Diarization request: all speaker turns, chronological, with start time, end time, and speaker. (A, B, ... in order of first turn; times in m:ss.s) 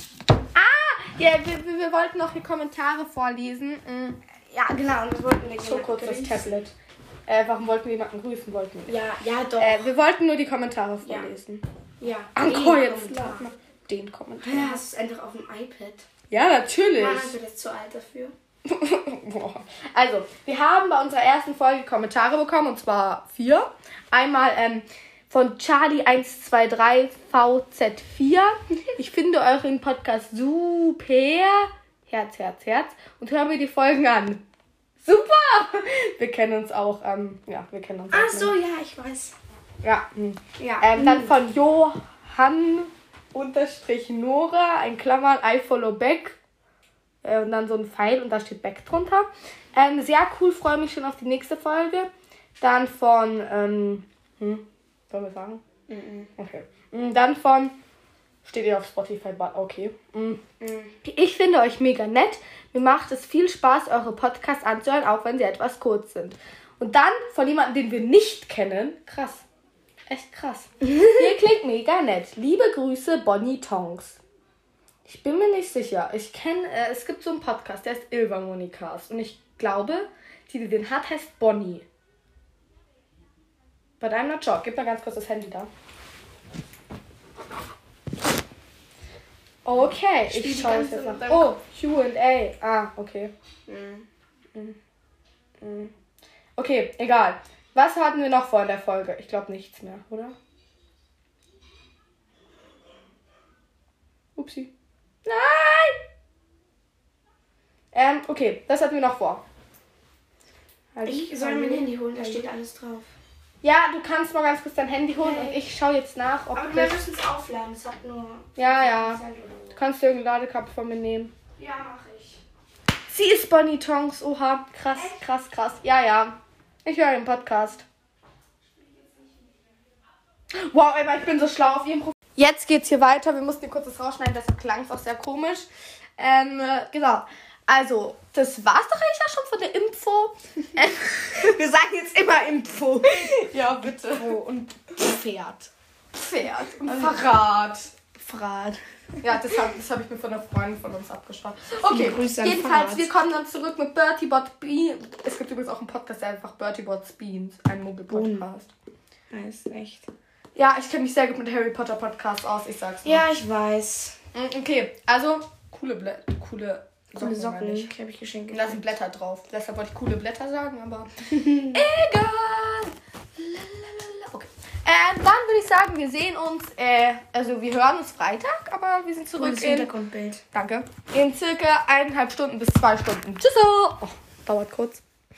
0:00.5-0:04.2 A
0:04.5-0:06.6 B
0:05.6-0:06.7 A
0:07.3-0:09.0 A
0:08.9-0:09.9 B
0:09.6-0:11.6 A
0:11.0-0:11.3 B
0:12.0-0:13.4 B
0:12.3-0:14.8 A
0:14.4-0:16.1 B
0:16.3-0:17.4 A
0:16.9-0:18.3 B
0:18.6-0:34.4 A
0:35.0-0:38.6 A
0:38.1-0:39.3 B
0:39.8-0:46.4 A
0:40.6-0:41.3 B
0:47.2-0:55.6 A
0:55.9-0:56.3 B
0:56.4-0:57.8 A
0:58.4-1:09.4 A
1:00.6-1:00.9 B
1:10.1-1:14.2 A
1:15.0-1:21.8 A
1:24.0-1:25.7 A
1:29.6-1:33.3 A
1:30.2-1:31.6 B
1:33.7-1:34.0 B
1:35.6-1:35.9 A
1:36.6-1:40.3 A
1:44.4-1:44.7 A
1:45.2-1:46.0 A
1:47.9-1:49.4 A
1:50.9-1:52.5 A
1:51.0-1:53.1 B
1:53.6-1:57.0 A
1:55.2-1:55.6 B
1:56.5-1:59.8 B
1:58.6-1:59.2 A
1:59.7-2:01.3 A
2:01.6-2:02.4 B
2:03.1-2:07.8 A
2:04.9-2:05.3 B
2:08.8-2:09.5 B
2:10.6-2:15.7 A
2:16.2-2:21.5 A
2:21.2-2:23.5 B
2:23.2-2:24.3 A
2:24.1-2:25.7 B
2:26.1-2:27.9 A
2:26.8-2:27.3 B
2:28.2-2:28.8 B
2:29.2-2:38.7 A
2:31.9-2:33.1 B
2:38.1-2:38.5 B
2:39.3-2:40.1 B
2:40.6-2:43.3 A
2:43.0-2:44.2 B
2:44.3-2:47.9 A
2:47.1-2:48.8 B
2:48.5-2:51.1 A
2:51.4-2:51.8 B
2:51.7-2:59.9 A
2:59.3-3:00.4 B
3:00.5-3:05.0 A